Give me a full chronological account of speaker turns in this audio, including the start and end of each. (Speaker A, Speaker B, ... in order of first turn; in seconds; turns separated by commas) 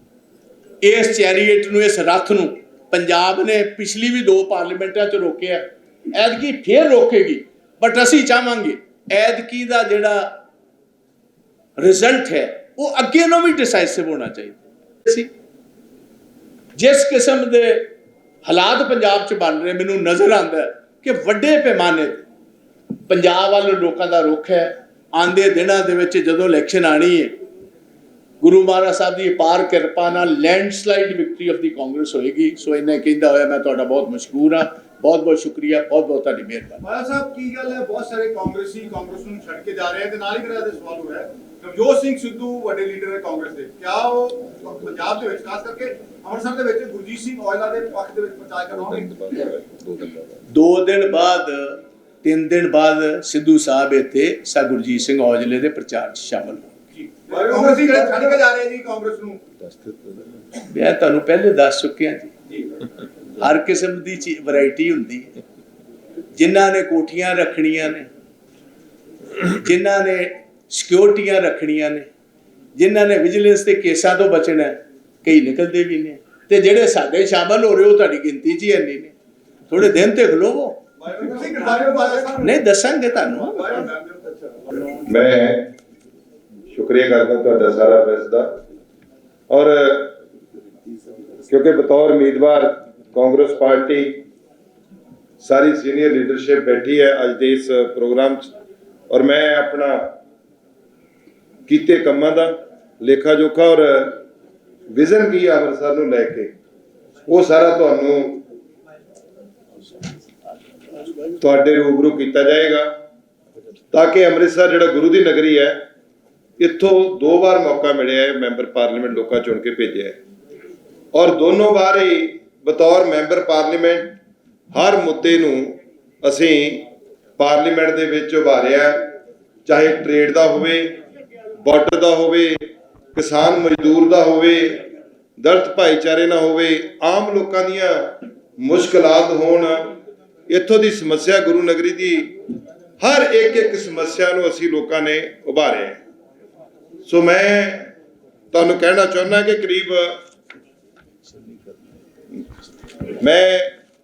Speaker A: 0.8-10.4, Speaker A: 11.8-15.3, Speaker A: 16.8-17.9, Speaker A: 18.4-22.3, Speaker A: 23.1-27.4, Speaker A: 28.4-36.8, Speaker B: 36.8-49.2, Speaker C: 48.9-50.4, Speaker A: 50.5-56.7, Speaker B: 57.3-59.4, Speaker C: 57.3-58.4, Speaker C: 59.6-60.3, Speaker A: 60.7-62.3, Speaker A: 63.4-65.3, Speaker A: 66.4-68.1, Speaker A: 69.5-72.1, Speaker A: 72.8-79.1, Speaker A: 79.7-80.8, Speaker B: 81.0-82.6, Speaker A: 82.4-83.7, Speaker B: 83.4-84.6, Speaker C: 85.0-85.7, Speaker C: 86.7-88.6, Speaker C: 89.5-90.2, Speaker C: 91.5-94.3, Speaker C: 95.4-98.5, Speaker C: 99.1-100.2, Speaker C: 101.7-104.2, Speaker C: 104.9-106.5, Speaker C: 107.3-108.5, Speaker C: 111.4-113.0, Speaker C: 113.9-115.9, Speaker C: 116.6-120.2, Speaker C: 121.1-124.2, Speaker C: 124.7-126.9, Speaker C: 127.4-129.2, Speaker C: 129.7-131.0, Speaker C: 131.6-134.9, Speaker C: 135.4-140.0, Speaker C: 140.5-142.4, Speaker C: 143.0-146.0, Speaker C: 147.1-147.9, Speaker C: 148.5-150.2, Speaker C: 153.2-153.8